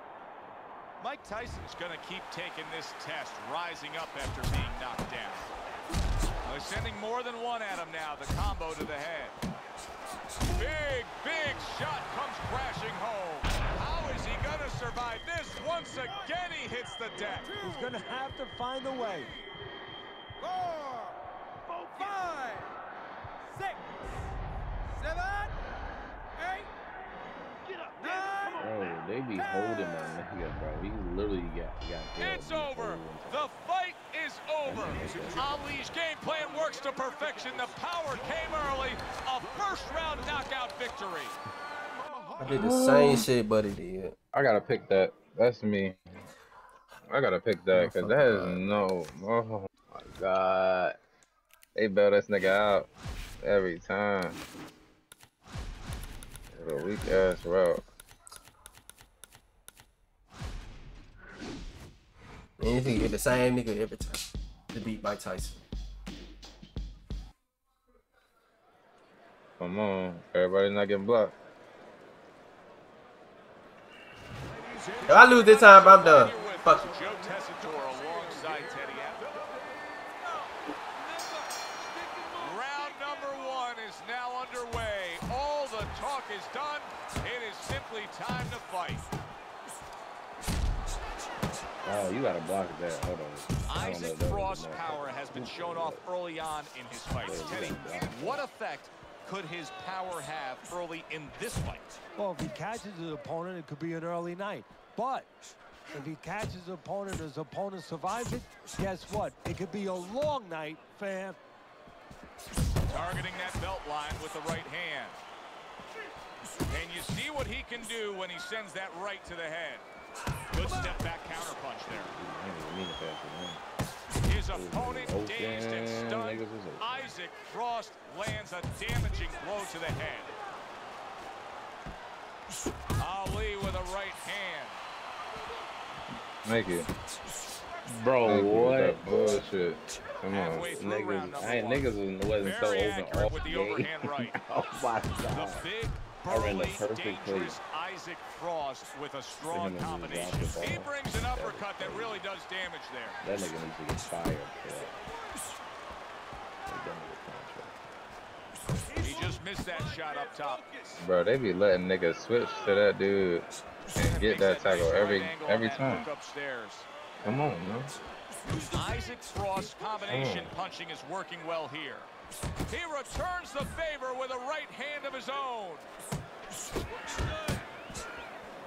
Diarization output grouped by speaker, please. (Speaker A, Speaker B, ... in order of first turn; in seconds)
Speaker A: 1.0-5.5, 6.4-9.3, 10.4-17.5, 32.2-41.4, 75.1-79.4, 82.4-89.0, 93.7-102.0, 112.9-115.2, 116.7-119.8, 120.5-122.1, 124.2-130.3, 133.0-134.8, 140.3-144.3, 145.3-153.2, 159.0-160.8, 164.0-166.9, 168.7-172.1, 172.7-175.8
Speaker B: 17.6-19.3, 102.2-105.3, 105.9-111.4
Speaker C: 21.9-22.2, 27.7-28.6, 82.0-82.4, 160.4-160.9
Speaker D: 28.6-33.5, 34.6-35.5, 47.7-48.6, 91.8-96.0, 97.2-98.5, 121.8-123.6, 124.5-127.1, 137.9-139.5, 140.8-145.7, 146.2-147.6, 149.5-152.2, 153.2-155.0, 156.6-157.7
Speaker E: 42.4-44.1, 62.6-65.6, 75.1-76.9
Speaker F: 42.5-43.2, 44.3-46.0, 47.1-51.0, 51.8-52.9, 53.4-54.4, 56.5-57.8, 69.6-71.3, 136.4-136.9, 138.2-141.2, 161.0-166.1, 167.2-167.9, 170.1-170.5